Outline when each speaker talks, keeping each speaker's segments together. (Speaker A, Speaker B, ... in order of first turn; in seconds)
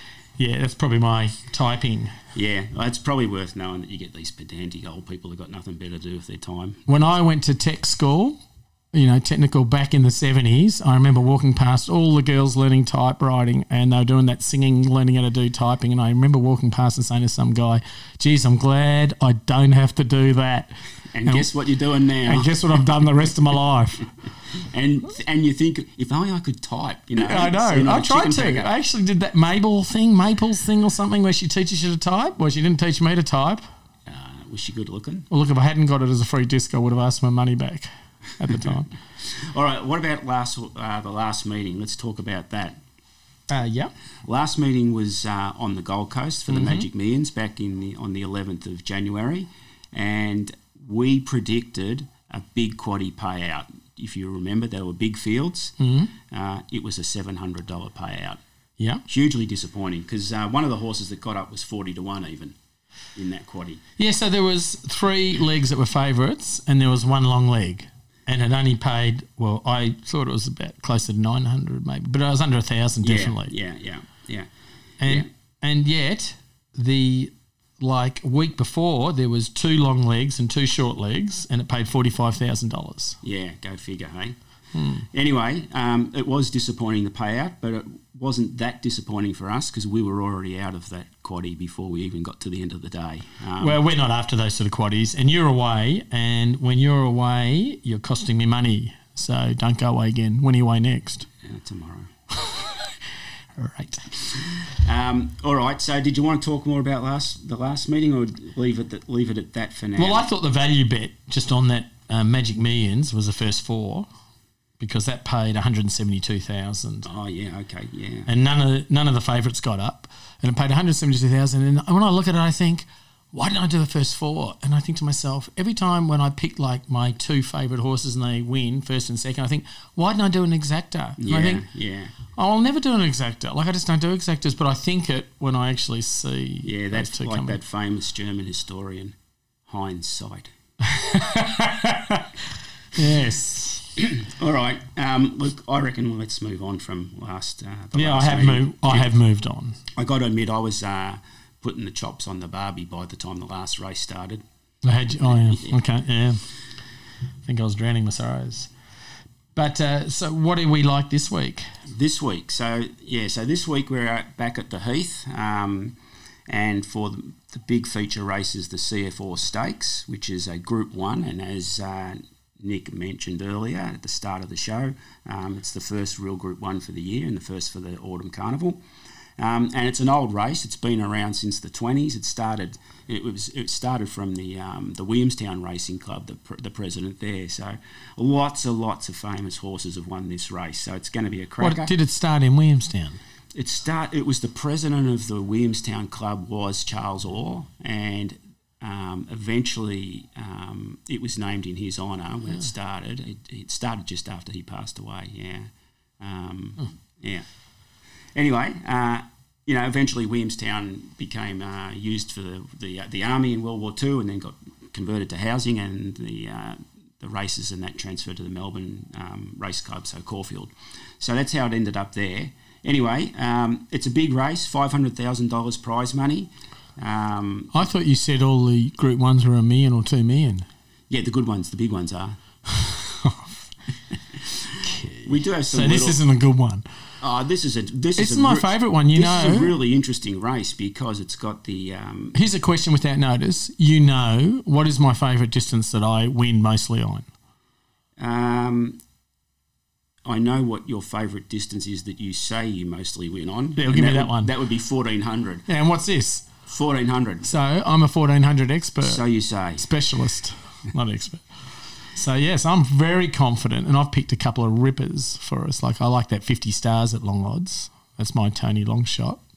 Speaker A: 0.4-2.1, 6.9-8.4, 8.9-20.7, 22.3-24.1, 27.2-33.6, 35.3-38.9, 43.5-43.9, 46.5-46.9, 55.8-56.1, 58.8-59.0, 64.0-73.5, 75.0-83.2, 84.8-85.0, 93.6-101.3, 102.4-102.8, 103.6-104.1, 110.0-114.1, 114.8-117.1, 118.3-131.6, 132.3-137.6, 140.9-142.2, 142.9-143.9, 147.9-149.8, 154.8-156.4, 157.4-158.7, 159.6-161.7, 191.6-193.2, 227.7-230.7, 232.7-233.7, 234.8-236.8, 238.2-239.8, 242.3-247.3, 253.8-254.5, 255.7-256.5, 257.4-259.2, 259.8-261.4, 262.1-269.4
Speaker B: 2.4-6.8, 21.1-23.1, 24.5-28.7, 34.1-35.3, 39.2-42.8, 44.2-55.7, 56.3-58.4, 59.1-62.6, 63.2-63.8, 73.0-74.5, 83.2-84.4, 85.1-93.8, 101.4-102.1, 104.3-110.3, 117.0-118.3, 131.2-132.2, 136.7-139.2, 139.7-140.5, 144.0-149.1, 149.9-154.4, 155.3-155.7, 161.9-166.0, 166.5-178.8, 179.4-191.9, 193.5-205.7, 206.2-207.4, 208.3-227.9, 231.1-232.4, 235.2-236.2, 237.2-242.4, 248.2-249.0, 250.2-255.7, 256.7-257.5, 259.0-259.9